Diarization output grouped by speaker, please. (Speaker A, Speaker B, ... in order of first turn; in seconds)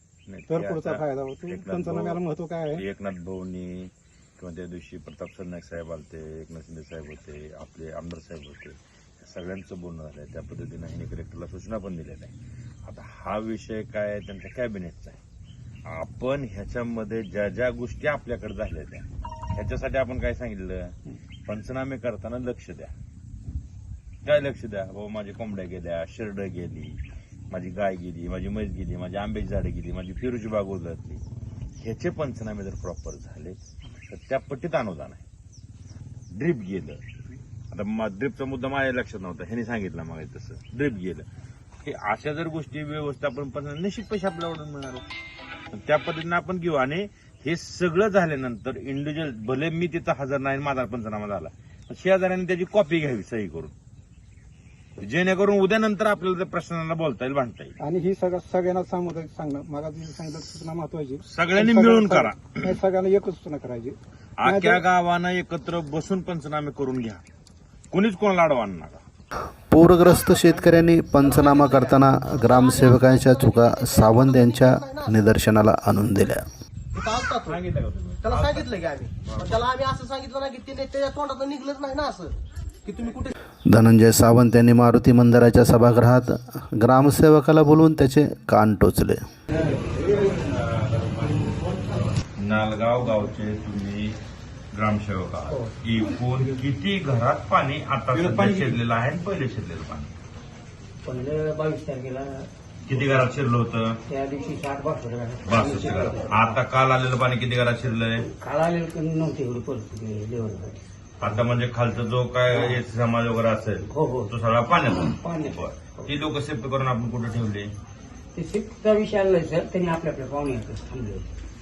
Speaker A: 0.3-2.2, 2.7-12.3, 12.9-15.2, 15.9-19.0, 19.6-20.9, 21.5-22.9, 24.2-27.0, 27.5-31.2, 31.8-35.2, 36.3-37.0, 37.7-41.3, 41.8-45.0, 45.7-53.7, 55.0-57.8, 61.2-62.8, 64.4-67.2, 67.9-69.0, 77.3-78.7, 79.2-79.7, 89.8-91.9, 92.4-94.2, 94.7-100.1, 102.9-104.0, 105.5-108.2, 111.2-117.7
Speaker B: 0.5-2.8, 57.8-64.8
Speaker C: 69.7-76.5, 83.7-89.2
Speaker D: 72.5-74.0, 78.4-79.0, 79.7-82.3, 82.9-83.3
Speaker E: 101.0-102.5, 104.1-106.6, 108.2-110.8, 112.5-112.8, 113.9-114.3, 115.1-116.1, 118.3-121.3